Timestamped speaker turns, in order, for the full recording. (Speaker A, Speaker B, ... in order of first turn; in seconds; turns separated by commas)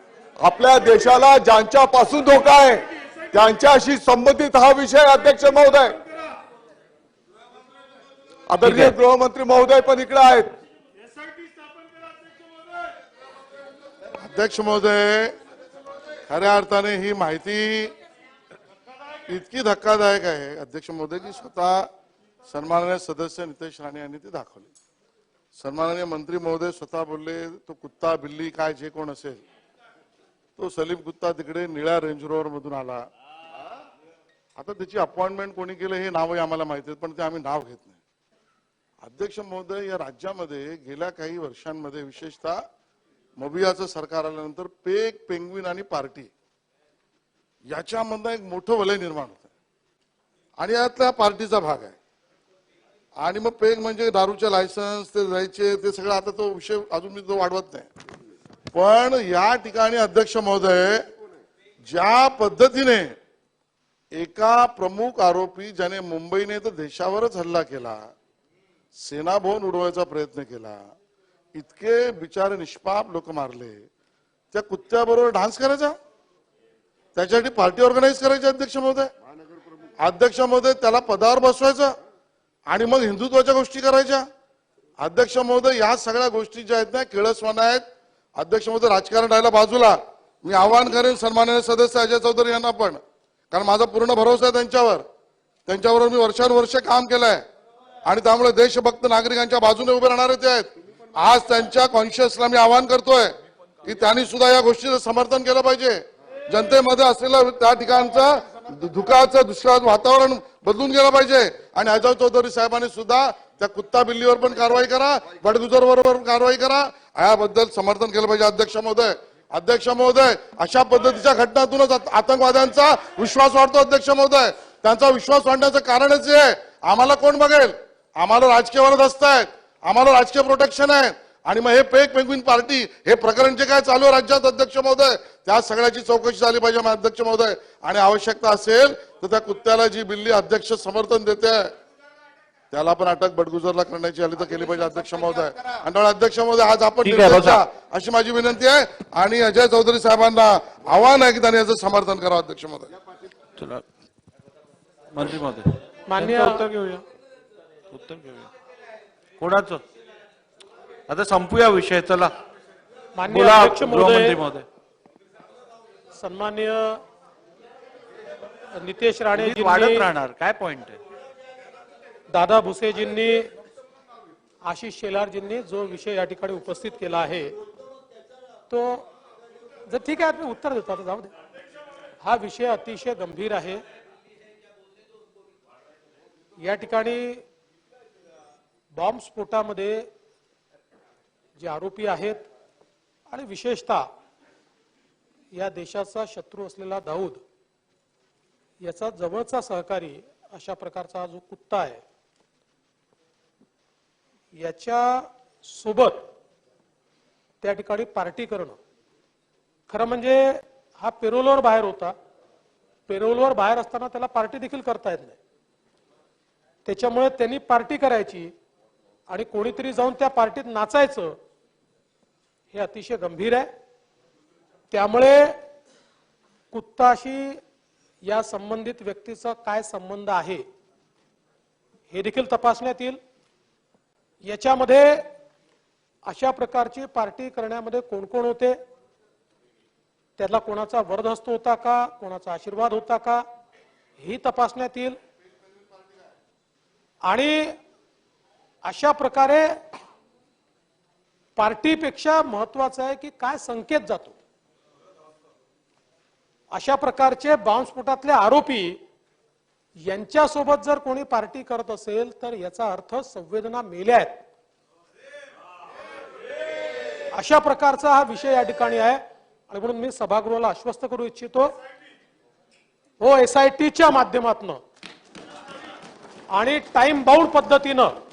Speaker A: 0.4-6.0, Speaker A: 8.5-10.5, Speaker B: 8.6-8.9, Speaker C: 14.2-15.3, Speaker C: 16.3-17.9, Speaker C: 19.3-21.9, Speaker C: 22.5-24.7, Speaker C: 25.6-29.4, Speaker C: 30.6-33.0, Speaker C: 34.6-38.0, Speaker C: 39.0-42.6, Speaker C: 43.4-46.3, Speaker C: 47.7-49.5, Speaker C: 50.6-52.0, Speaker C: 53.2-57.9, Speaker C: 58.7-61.0, Speaker C: 61.9-63.1, Speaker C: 64.2-68.1, Speaker C: 69.0-70.8, Speaker C: 71.5-73.9, Speaker C: 74.5-76.0, Speaker C: 77.2-79.1, Speaker C: 80.0-82.0, Speaker C: 82.7-84.3, Speaker C: 85.0-87.8, Speaker C: 88.4-95.0, Speaker C: 95.7-97.4, Speaker C: 98.1-103.3, Speaker C: 103.8-141.7, Speaker C: 142.7-152.9, Speaker B: 147.0-147.6, Speaker B: 153.6-153.8, Speaker B: 155.1-157.0, Speaker D: 156.1-157.0, Speaker B: 157.9-158.5, Speaker B: 159.4-159.8, Speaker B: 161.1-162.3, Speaker D: 163.2-164.4, Speaker B: 163.2-164.7, Speaker D: 166.2-167.0, Speaker D: 168.7-170.1, Speaker B: 169.3-171.0, Speaker D: 172.3-173.5, Speaker D: 174.7-177.6, Speaker D: 178.7-179.1, Speaker D: 179.9-181.3, Speaker D: 182.2-183.8, Speaker D: 186.6-187.4, Speaker D: 188.9-190.1, Speaker D: 191.6-192.5, Speaker D: 193.3-194.1, Speaker D: 195.5-197.4, Speaker D: 198.8-202.0, Speaker D: 204.6-206.2, Speaker D: 207.6-208.8, Speaker D: 209.9-212.2, Speaker D: 213.1-215.4, Speaker D: 216.8-218.5, Speaker D: 219.3-221.4, Speaker D: 222.7-223.7, Speaker D: 224.9-225.6, Speaker D: 226.7-227.6, Speaker D: 228.2-230.7, Speaker D: 232.1-233.2, Speaker D: 234.4-235.3, Speaker D: 236.3-238.8, Speaker D: 240.4-243.4, Speaker D: 244.2-245.2, Speaker D: 247.2-247.8, Speaker D: 248.8-249.8, Speaker D: 251.6-254.4, Speaker D: 256.7-259.0, Speaker D: 260.0-264.4, Speaker D: 267.3-271.8, Speaker D: 273.2-274.8, Speaker D: 276.5-278.1